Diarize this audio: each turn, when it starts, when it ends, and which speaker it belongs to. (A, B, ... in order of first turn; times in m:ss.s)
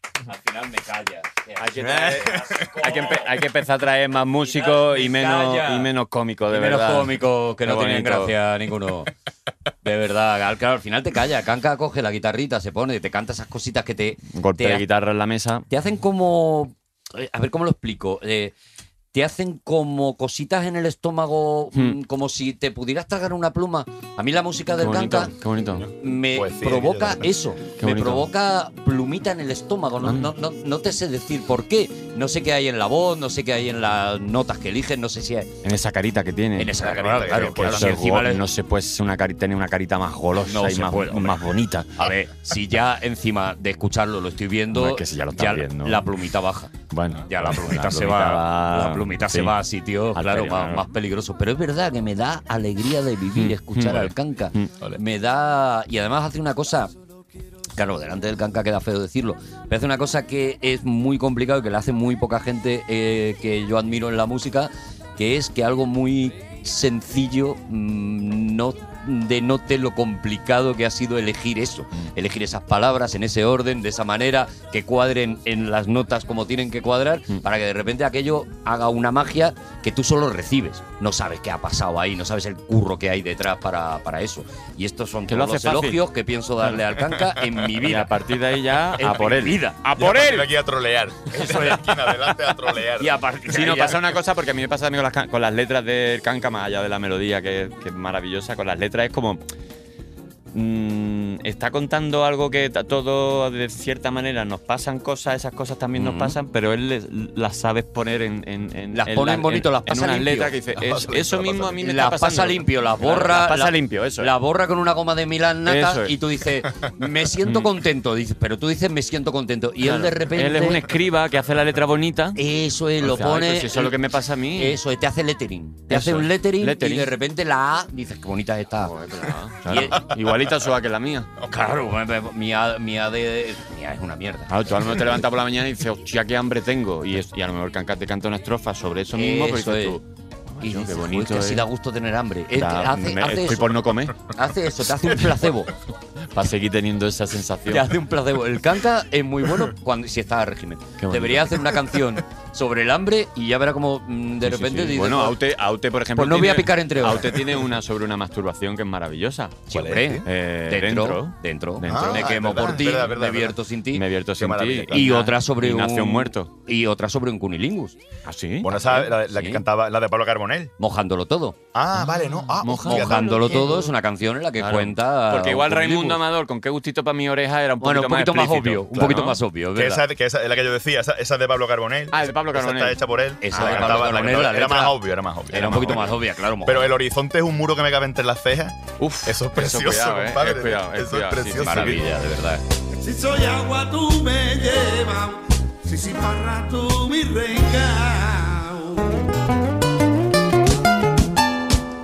0:00.3-0:03.2 A
0:01.6-0:08.3 B
0:01.7-0:02.7 C
0:04.4-0:05.9 A
0:06.5-0:09.1 A
0:09.8-0:14.8 A
0:14.3-0:15.7 B
0:15.7-0:18.5 A
0:19.1-0:25.3 A
0:24.8-0:25.8 B
0:25.8-0:27.3 C
0:26.0-0:35.5 A
0:27.8-0:28.3 B
0:30.0-0:30.3 B
0:35.6-0:36.7 B
0:36.6-0:38.4 A
0:36.8-0:38.0 C
0:37.3-0:42.0 B
0:40.4-0:41.4 A
0:42.0-0:46.7 A
0:44.7-0:46.0 B
0:46.9-0:49.5 B
0:47.3-0:56.9 A
0:50.1-0:50.8 B
0:53.3-0:54.7 B
0:57.8-1:28.1 A
1:25.3-1:26.0 B
1:27.8-1:30.5 B
1:29.0-1:29.8 A
1:29.9-1:33.1 C
1:31.3-1:32.1 A
1:33.0-1:34.1 A
1:33.5-1:39.4 B
1:40.5-1:54.3 B
1:46.0-1:46.4 A
1:48.9-1:50.5 A
1:50.7-1:51.8 C
1:51.8-2:00.9 A
1:55.6-1:56.2 B
1:57.4-1:57.7 B
1:59.8-2:02.4 B
2:02.4-2:04.0 A
2:03.0-2:04.8 B
2:04.6-2:08.9 A
2:05.9-2:07.1 B
2:08.8-2:11.3 B
2:09.7-2:10.1 A
2:11.4-2:15.1 A
2:14.5-2:21.6 B
2:19.1-2:20.0 A
2:20.6-2:25.7 A
2:22.6-2:24.3 B
2:26.3-2:27.9 B
2:27.7-2:35.4 A
2:31.0-2:31.6 B
2:34.4-2:39.7 B
2:36.2-2:37.4 A
2:39.7-2:44.0 A
2:39.7-2:40.2 C
2:40.2-2:43.1 B
2:41.9-2:43.6 C
2:43.9-2:46.5 B
2:44.4-2:45.2 C
2:44.9-2:48.0 A
2:48.2-2:48.7 B
2:48.6-2:50.7 C
2:48.7-2:49.6 A
2:50.8-2:51.6 A
2:51.7-2:53.8 C
2:52.6-2:53.9 B
2:52.8-2:56.2 A
2:54.6-2:59.4 B
2:57.8-3:00.0 A
2:59.7-3:12.0 C
3:02.1-3:03.0 B
3:03.4-3:05.0 A
3:03.5-3:04.1 B
3:05.5-3:06.9 A
3:09.0-3:12.0 B
3:11.6-3:12.6 A
3:13.0-3:19.3 D